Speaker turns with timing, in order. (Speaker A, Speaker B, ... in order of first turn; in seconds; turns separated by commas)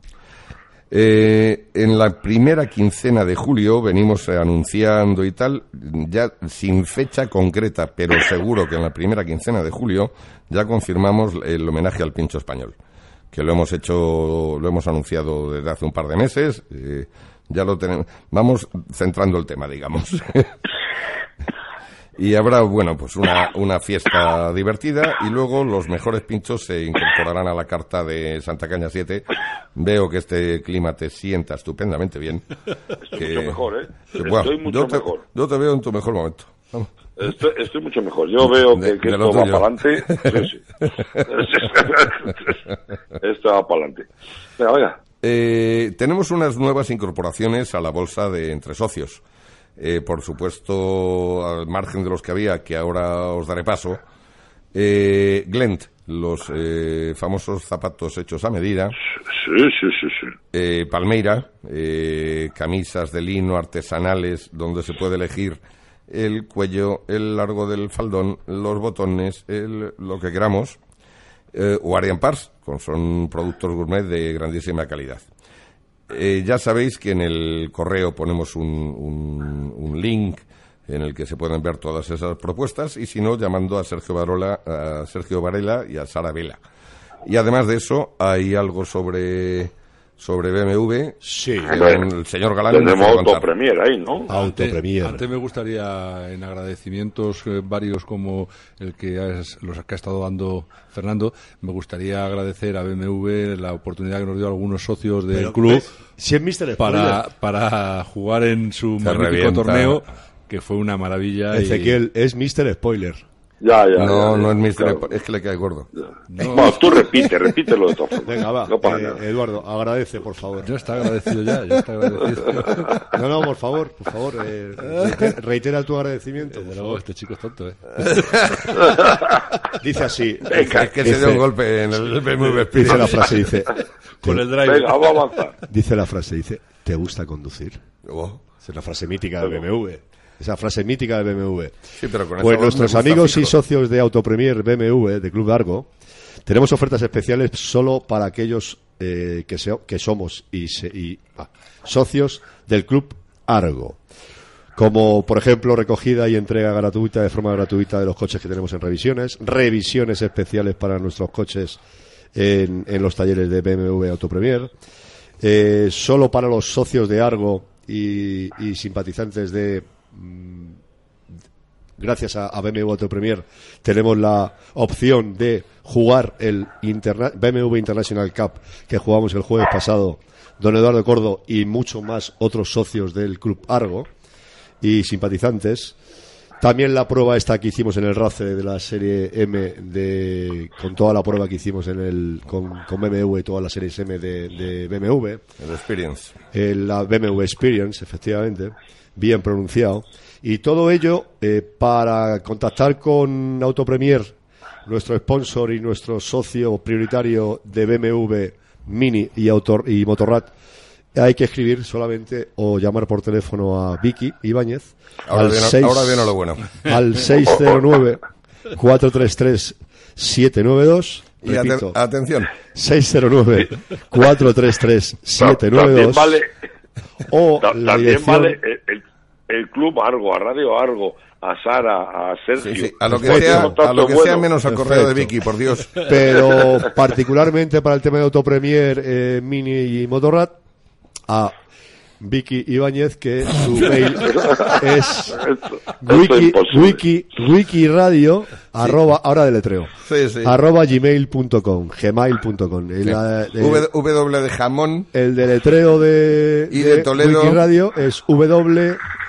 Speaker A: 0.9-12.7, Speaker A: 13.3-20.6, Speaker A: 22.2-32.4, Speaker B: 33.0-35.2, Speaker A: 33.1-36.9, Speaker B: 37.2-40.6, Speaker A: 38.7-41.7, Speaker B: 41.2-42.5, Speaker B: 43.2-45.0, Speaker A: 45.2-49.2, Speaker A: 49.8-54.0, Speaker A: 54.7-59.0, Speaker B: 59.3-60.3, Speaker A: 60.5-70.8, Speaker A: 71.5-75.2, Speaker A: 76.1-86.6, Speaker A: 87.2-93.5, Speaker C: 91.2-91.8, Speaker B: 91.7-92.1, Speaker B: 92.7-94.3, Speaker C: 94.3-95.2, Speaker D: 94.3-105.9, Speaker C: 105.3-107.2, Speaker D: 106.8-112.0, Speaker A: 109.0-110.0, Speaker C: 111.5-113.2, Speaker B: 113.6-115.0, Speaker A: 114.0-115.9, Speaker D: 116.3-117.0, Speaker B: 116.4-119.2, Speaker C: 118.2-120.7, Speaker D: 120.6-123.0, Speaker C: 123.1-127.0, Speaker D: 126.5-128.6, Speaker A: 128.2-128.6, Speaker B: 128.9-129.2, Speaker C: 129.7-131.5, Speaker A: 130.5-133.5, Speaker C: 132.6-134.4, Speaker D: 134.2-135.4, Speaker B: 134.6-135.5, Speaker C: 135.7-137.8, Speaker A: 138.0-138.4, Speaker C: 138.6-141.8, Speaker A: 142.0-143.6, Speaker C: 142.4-145.9, Speaker C: 146.4-154.0, Speaker C: 154.8-161.8, Speaker C: 162.3-164.7, Speaker C: 165.4-170.8, Speaker C: 172.0-184.1, Speaker C: 184.8-185.9, Speaker C: 186.6-195.4, Speaker A: 195.6-196.3, Speaker C: 196.5-204.3, Speaker C: 204.8-210.5, Speaker C: 211.1-218.2, Speaker A: 215.3-216.8, Speaker C: 218.7-222.0, Speaker A: 221.4-222.5, Speaker C: 222.7-226.4, Speaker B: 225.4-226.5, Speaker C: 227.3-228.6, Speaker B: 227.6-234.5, Speaker A: 232.6-236.1, Speaker C: 233.1-233.8, Speaker C: 234.6-235.3, Speaker C: 235.9-240.6, Speaker C: 241.3-241.5, Speaker C: 242.2-245.4, Speaker B: 244.1-247.0, Speaker C: 246.0-249.9, Speaker A: 250.0-250.5, Speaker C: 250.4-253.9, Speaker A: 253.1-255.1, Speaker C: 255.1-259.0, Speaker A: 256.7-257.6